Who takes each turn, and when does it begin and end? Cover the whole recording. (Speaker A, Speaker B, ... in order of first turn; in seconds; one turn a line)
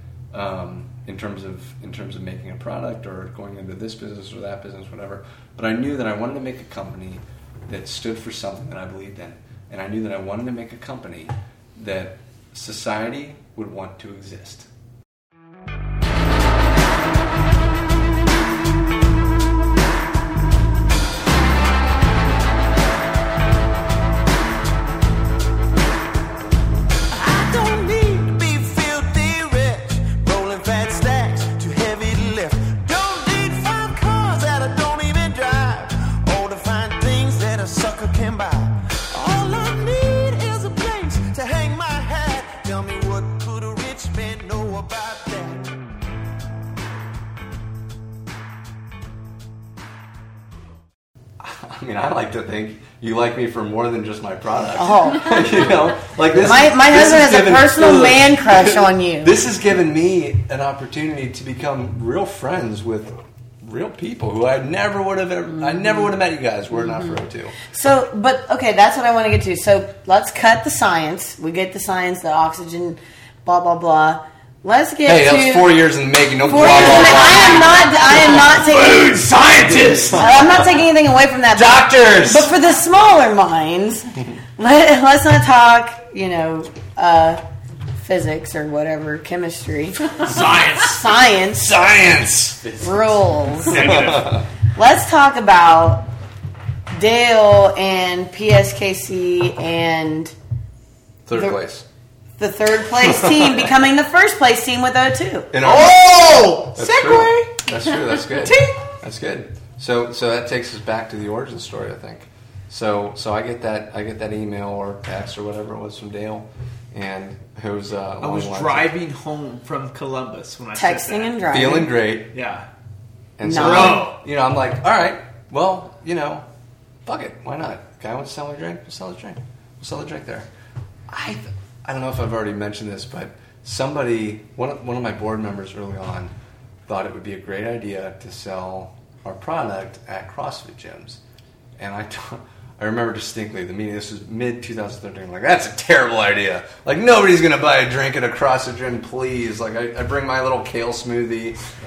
Speaker A: 0.3-14.7
Speaker B: 27.1-45.7
Speaker A: 51.4-67.6
Speaker C: 54.7-55.7
Speaker C: 56.3-59.4
Speaker C: 67.7-79.2
Speaker A: 75.0-77.9
Speaker D: 76.7-80.4
Speaker A: 79.8-80.6
Speaker C: 80.1-87.4
Speaker A: 81.5-82.5
Speaker C: 88.0-91.9
Speaker D: 90.2-91.0
Speaker A: 91.6-92.9
Speaker C: 92.8-94.0
Speaker D: 93.6-94.4
Speaker A: 93.7-94.5
Speaker C: 94.8-96.1
Speaker C: 96.9-100.3
Speaker A: 101.3-101.9
Speaker C: 101.3-101.6
Speaker C: 102.4-105.5
Speaker A: 103.0-103.6
Speaker A: 105.5-118.9
Speaker D: 105.6-107.6
Speaker D: 108.2-108.8
Speaker D: 118.2-121.4
Speaker C: 120.8-121.9
Speaker A: 121.5-122.3
Speaker D: 122.3-122.7
Speaker A: 123.4-126.5
Speaker C: 123.4-124.1
Speaker D: 123.5-124.2
Speaker A: 127.1-130.5
Speaker A: 131.1-136.3
Speaker A: 136.9-141.2
Speaker A: 141.8-151.6